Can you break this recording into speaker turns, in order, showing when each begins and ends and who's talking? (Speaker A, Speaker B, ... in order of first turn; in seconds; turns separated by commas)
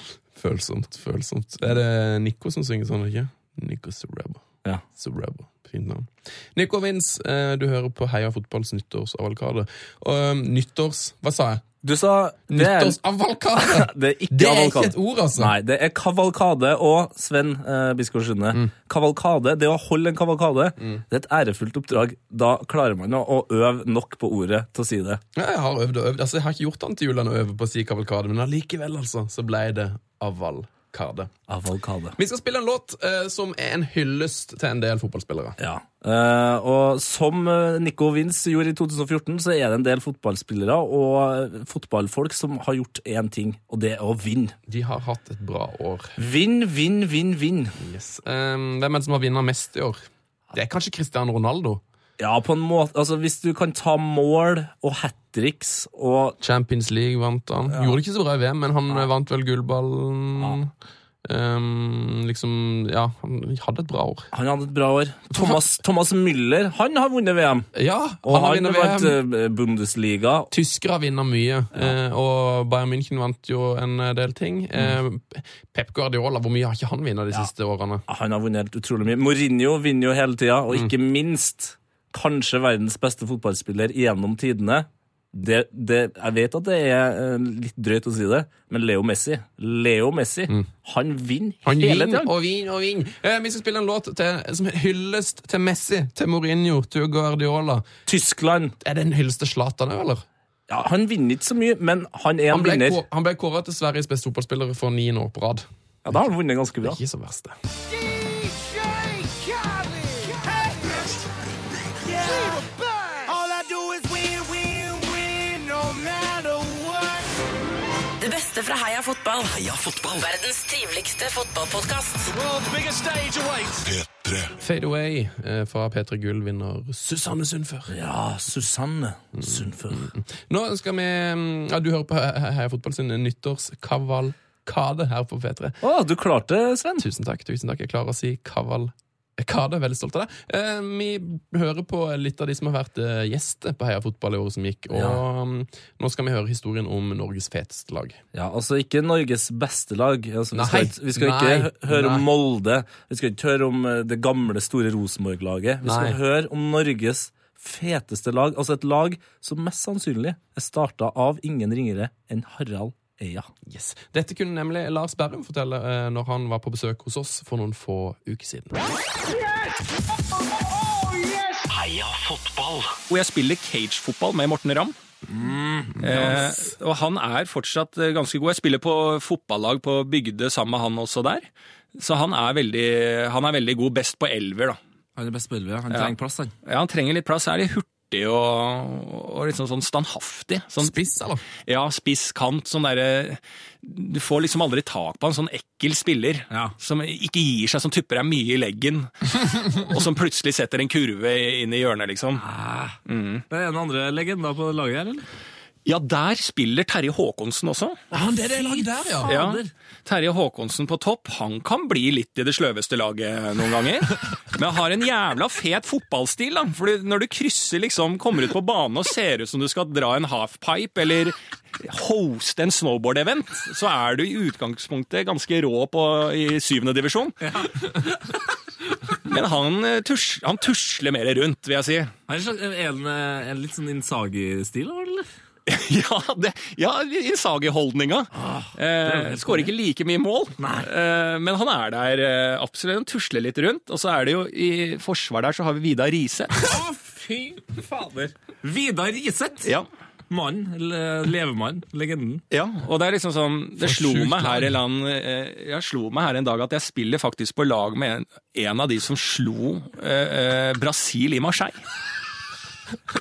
Speaker A: 0.3-11.6, Speaker B: 11.8-13.0, Speaker A: 12.5-15.5, Speaker B: 13.6-25.2, Speaker A: 20.8-21.0, Speaker A: 25.3-31.3, Speaker B: 31.5-32.1, Speaker A: 32.2-35.5, Speaker B: 35.6-44.5, Speaker A: 44.7-46.1, Speaker B: 46.2-47.7, Speaker A: 47.8-50.0, Speaker A: 50.5-51.8, Speaker B: 52.2-56.4, Speaker A: 56.4-60.7, Speaker B: 57.7-58.0, Speaker A: 61.2-64.3, Speaker B: 64.3-67.7, Speaker A: 65.3-65.6, Speaker A: 67.7-69.2, Speaker B: 68.2-70.5, Speaker A: 70.5-78.0, Speaker B: 78.1-92.3, Speaker A: 91.6-97.9, Speaker B: 98.1-98.8, Speaker A: 98.8-100.2, Speaker B: 100.7-103.0, Speaker A: 102.5-106.2, Speaker B: 106.0-107.0, Speaker A: 106.8-107.5, Speaker C: 108.0-111.2, Speaker C: 112.1-117.3, Speaker D: 118.2-119.5, Speaker E: 119.5-120.3, Speaker D: 120.2-122.3, Speaker C: 122.2-124.3, Speaker A: 124.6-127.9, Speaker B: 127.9-130.1, Speaker A: 129.3-135.8, Speaker B: 135.8-137.0, Speaker A: 137.0-148.2, Speaker B: 144.9-145.2, Speaker B: 148.3-163.5, Speaker A: 150.5-152.2, Speaker A: 155.8-156.2, Speaker A: 163.7-168.8, Speaker C: 169.3-169.7, Speaker C: 170.6-171.7, Speaker E: 171.7-172.9, Speaker F: 173.1-174.9, Speaker B: 175.3-176.3, Speaker F: 176.0-184.8, Speaker A: 176.2-176.4, Speaker B: 185.2-186.5, Speaker F: 185.9-190.9, Speaker A: 190.8-191.4, Speaker F: 191.7-202.4, Speaker B: 196.5-196.7, Speaker B: 202.3-203.0, Speaker F: 203.1-203.4, Speaker B: 203.5-205.2, Speaker F: 205.8-208.0, Speaker A: 208.1-209.3, Speaker B: 208.1-209.7, Speaker F: 209.2-227.4, Speaker B: 227.4-228.1, Speaker F: 229.2-232.1, Speaker B: 232.3-235.2, Speaker F: 235.7-246.5, Speaker B: 238.3-239.7, Speaker B: 240.6-240.9, Speaker B: 246.7-249.7, Speaker B: 250.3-252.4, Speaker F: 252.5-261.8, Speaker A: 253.8-254.7